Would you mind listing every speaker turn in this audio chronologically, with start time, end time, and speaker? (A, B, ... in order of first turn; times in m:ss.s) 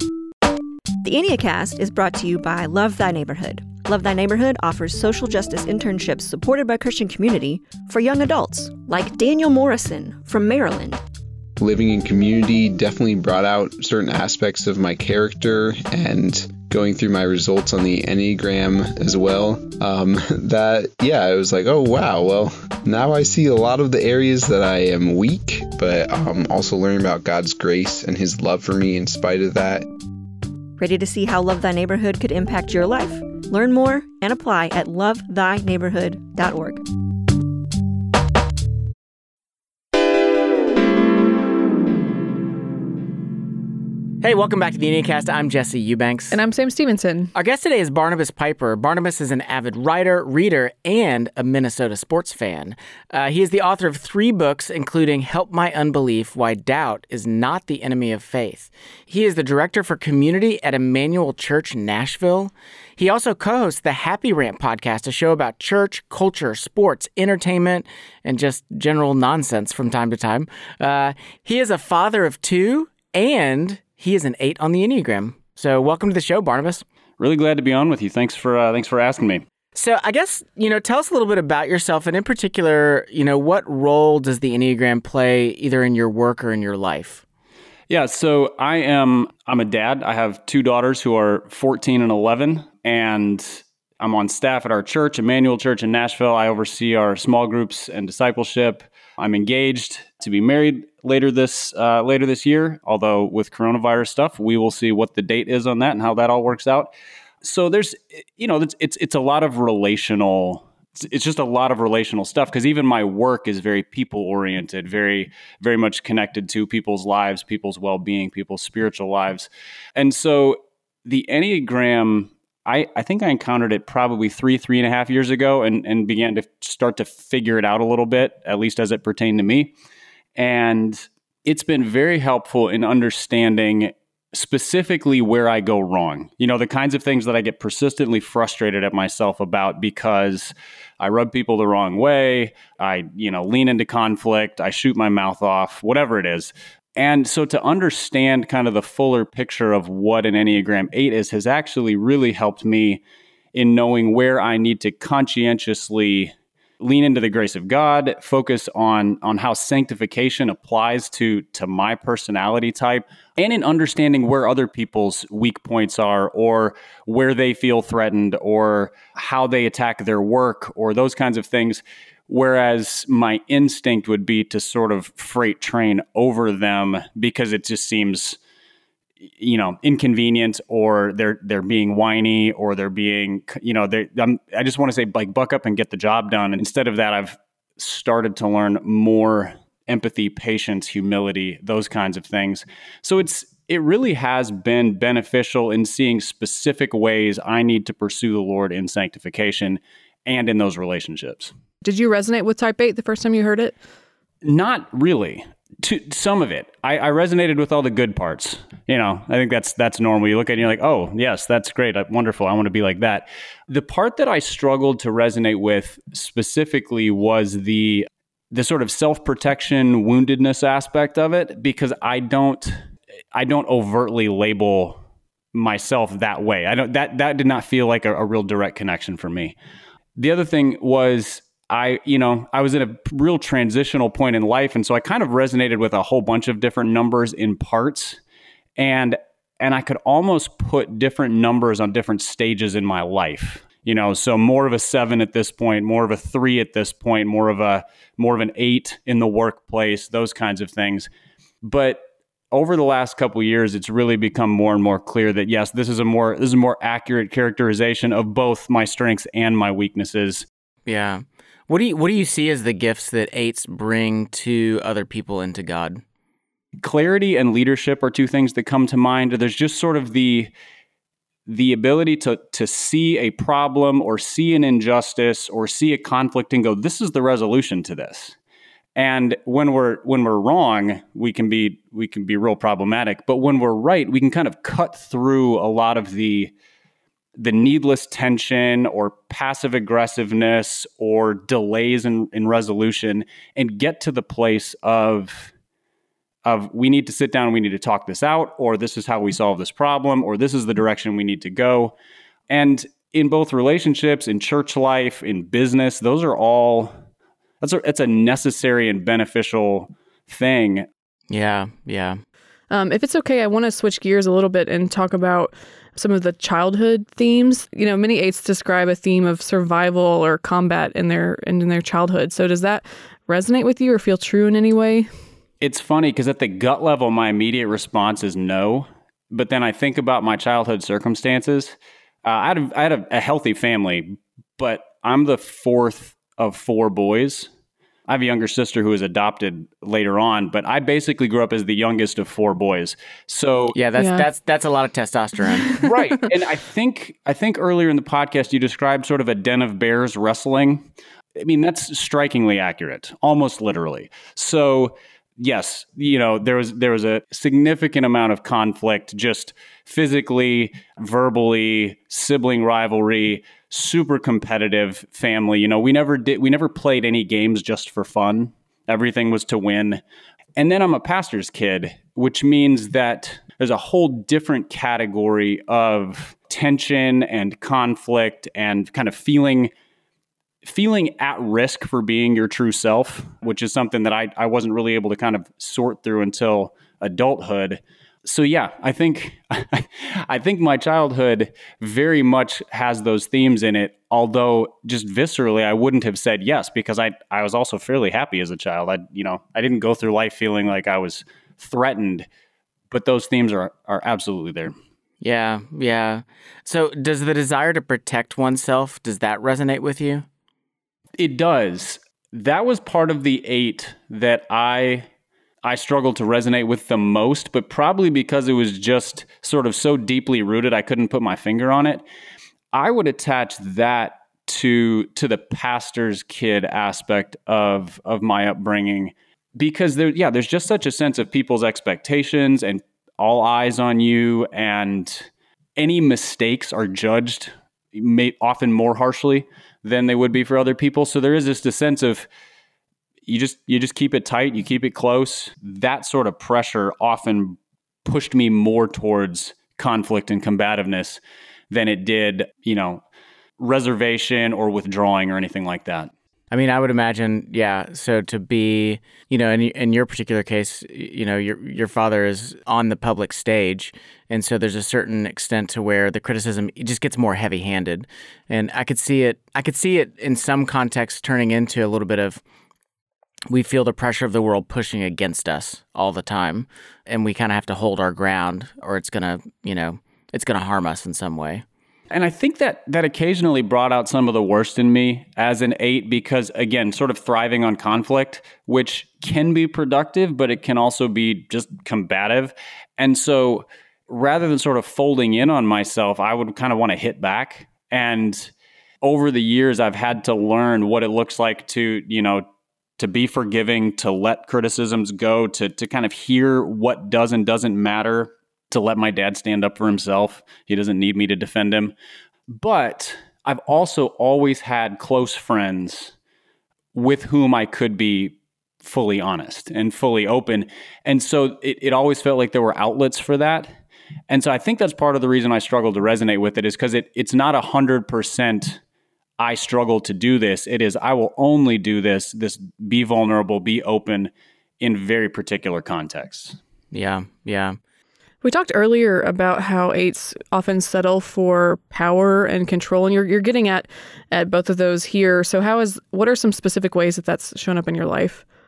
0:01.0-0:11.0 A
0:11.6-0:29.8 B
0:30.8-0:36.8 A
0:44.2-0:46.4 C
0:46.3-0:47.3 D
0:47.3-1:16.8 C
1:17.2-1:19.4 E
1:19.7-1:27.2 C
1:27.9-1:46.9 E
1:47.4-2:09.7 E
2:10.4-2:33.0 E
2:33.5-2:58.4 E
2:59.4-3:21.5 E
3:21.8-3:23.7 D
3:24.4-3:42.8 E
3:43.3-3:45.0 E
3:45.5-3:49.6 E
3:50.2-3:58.2 E
3:58.8-4:11.1 E
4:11.6-4:20.4 E
4:20.8-4:26.0 C
4:26.8-4:30.5 E
4:31.5-4:38.4 E
4:39.0-4:46.5 E
4:47.4-4:55.5 E
4:56.4-5:01.9 E
5:02.5-5:06.9 E
5:07.6-5:10.9 E
5:11.3-5:12.2 C
5:12.7-5:25.1 D
5:25.6-5:37.5 E
5:38.1-5:43.8 E
5:43.7-5:45.8 C
5:44.0-5:44.2 D
5:45.8-5:50.8 E
5:51.4-6:10.0 E
6:10.6-6:19.7 E
6:20.6-6:42.3 E
6:42.9-6:44.7 E
6:45.2-6:50.2 C
6:51.2-6:55.0 E
6:55.6-7:02.0 E
7:02.7-7:22.3 E
7:23.2-7:33.0 E
7:33.6-7:36.1 E
7:36.5-7:52.4 C
7:53.5-8:01.6 C
8:02.1-8:18.5 E
8:19.0-8:22.4 E
8:23.0-8:31.9 E
8:32.5-8:36.1 E
8:36.9-8:43.7 E
8:44.3-8:48.8 E
8:49.4-8:56.6 E
8:56.9-8:57.8 C
8:58.4-9:08.4 D